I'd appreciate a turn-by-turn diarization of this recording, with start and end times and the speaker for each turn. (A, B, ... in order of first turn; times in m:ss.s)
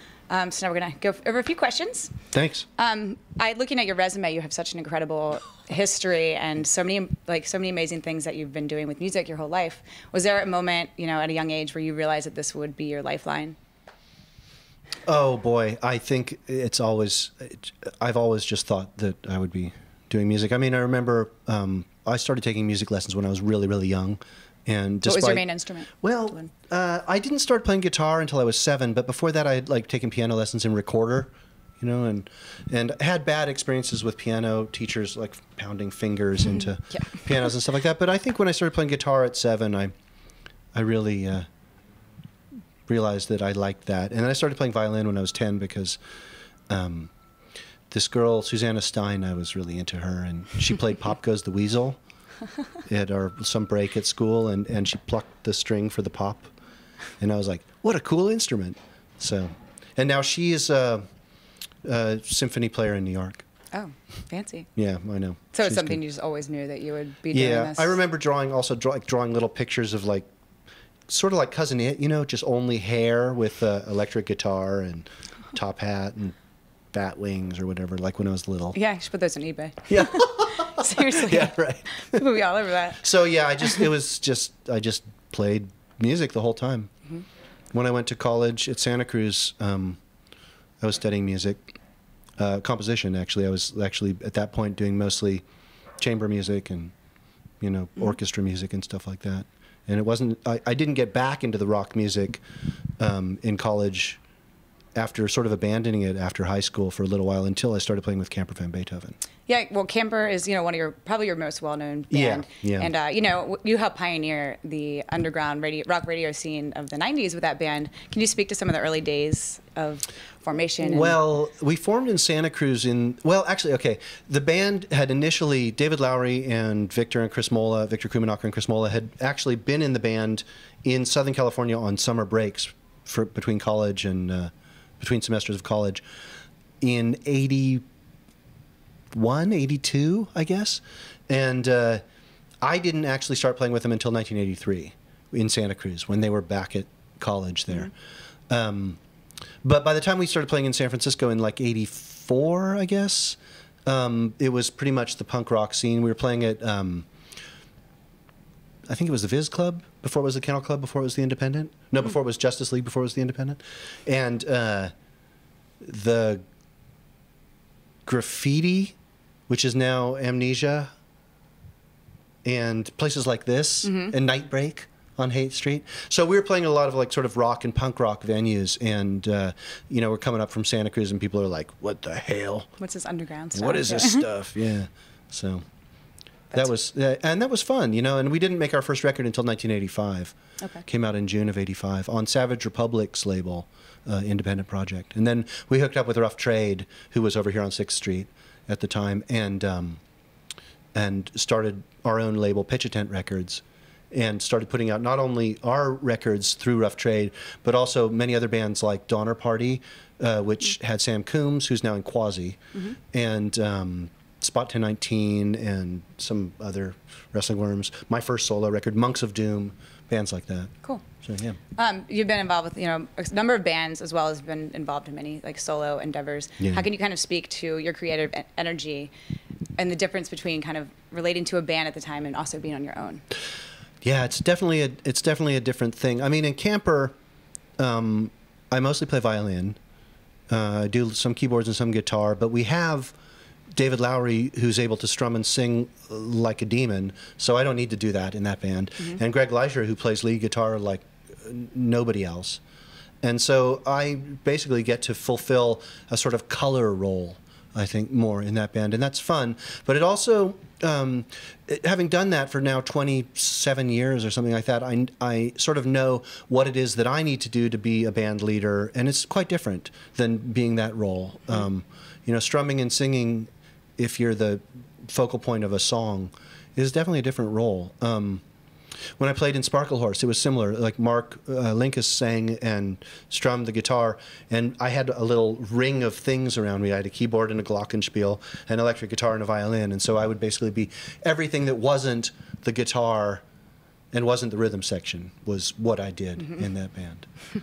0:00.3-0:02.2 A
0:02.3-0:02.7 B
0:02.8-0:13.6 A
0:15.1-0:25.4 B
0:25.0-0:26.5 A
0:26.0-0:39.9 B
0:40.7-0:41.5 B
0:42.9-0:46.0 B
0:46.7-0:47.1 B
0:47.9-0:52.0 B
0:52.9-0:56.5 B
0:57.2-1:01.0 B
1:01.8-1:03.4 B
1:03.7-1:04.7 A
1:04.8-1:06.0 B
1:05.5-1:08.0 A
1:07.3-1:10.3 B
1:11.1-1:16.4 B
1:16.9-1:18.8 B
1:18.8-1:23.0 A
1:19.9-1:22.2 B
1:23.0-1:26.9 B
1:27.7-1:30.0 B
1:30.8-1:31.6 B
1:32.4-1:35.4 B
1:36.0-1:36.9 B
1:37.6-1:42.4 B
1:43.0-1:44.2 B
1:45.0-1:49.2 B
1:49.5-2:01.2 A
1:52.1-1:52.9 B
2:00.8-2:16.0 B
2:16.8-2:17.8 B
2:19.1-2:22.0 B
2:22.6-2:27.9 B
2:28.5-2:29.0 B
2:29.6-2:37.1 B
2:38.9-2:44.9 B
2:45.8-2:46.4 B
2:48.1-2:49.0 B
2:49.5-2:50.9 B
2:52.4-3:02.7 B
2:53.8-2:54.1 A
3:02.8-3:04.3 A
3:03.6-3:05.6 B
3:06.5-3:10.4 B
3:10.9-3:20.0 B
3:20.9-3:32.6 B
3:33.1-3:41.6 B
3:41.8-3:49.1 A
3:46.6-3:46.8 B
3:49.8-3:53.2 A
3:54.0-3:57.1 B
3:57.8-3:59.8 B
4:00.5-4:03.1 B
4:03.7-4:12.6 B
4:13.2-4:38.4 B
4:39.2-4:53.4 B
4:54.1-4:57.3 B